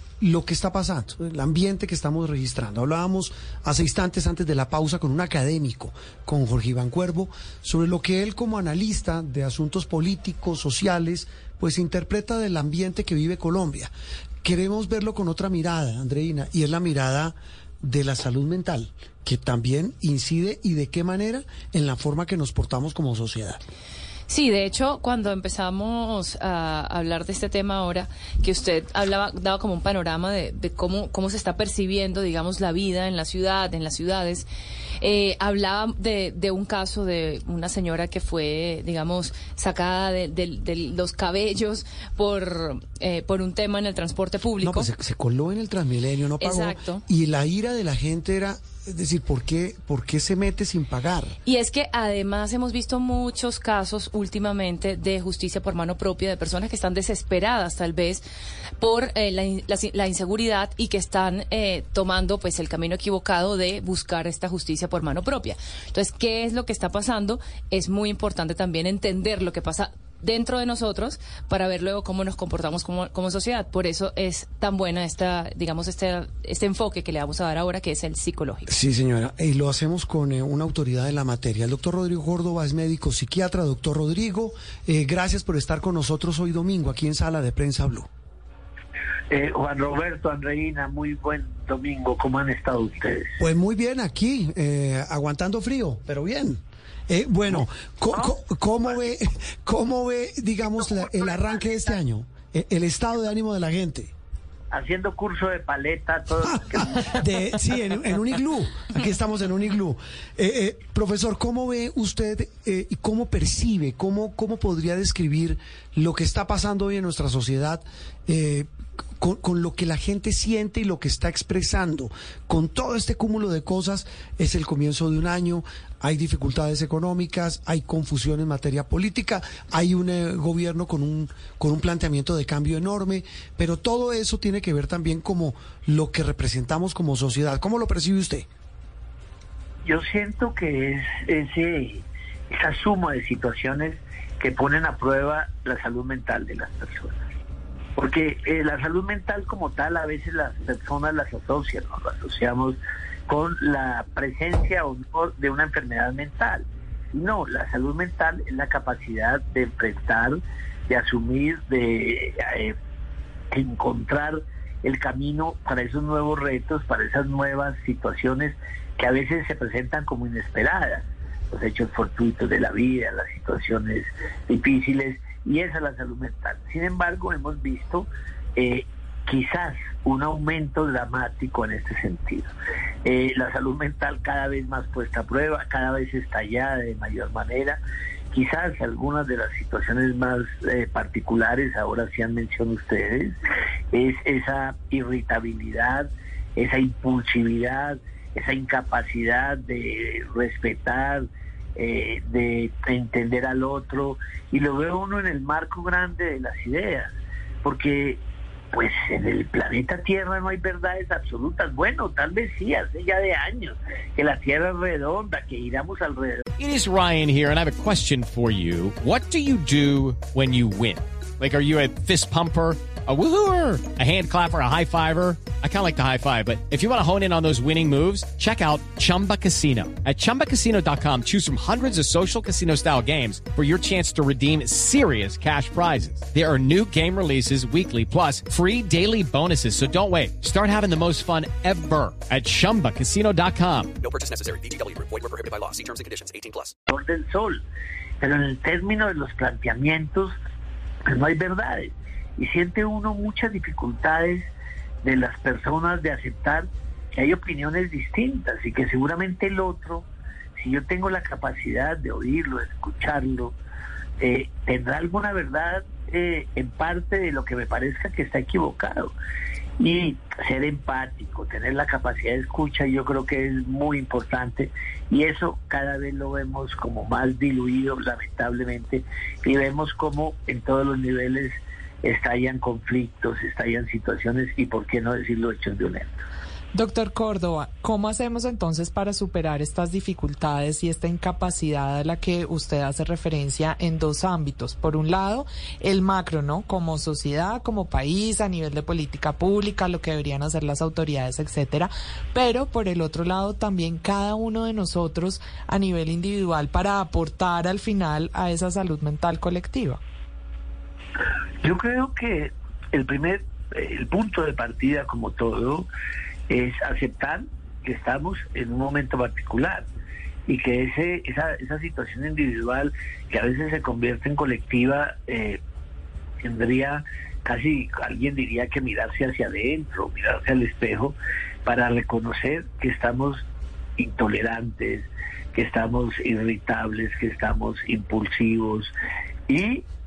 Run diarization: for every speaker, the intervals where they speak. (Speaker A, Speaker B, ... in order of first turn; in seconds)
Speaker A: 0.2-13.9, 14.4-23.6, 44.6-51.4, 78.7-88.1, 93.4-104.1, 106.4-138.5
Speaker B: 24.3-34.5, 35.0-44.9, 46.4-47.0, 51.5-58.3, 58.8-78.7
Speaker C: 89.3-93.3, 97.5-99.1, 100.8-101.9, 104.7-107.2, 139.8-147.1, 148.0-162.8, 163.5-182.5, 183.0-187.8, 188.3-193.3, 193.9-208.2, 208.7-216.4, 246.9-247.6, 248.2-250.3, 251.1-254.5, 255.0-260.1, 260.6-263.6, 264.2-269.1, 269.8-286.1, 311.6-315.9, 316.5-319.9, 320.5-325.6, 326.4-333.4, 334.0-338.9, 339.5-339.8
Speaker D: 216.6-243.9
Speaker E: 244.0-246.7
Speaker F: 286.7-310.0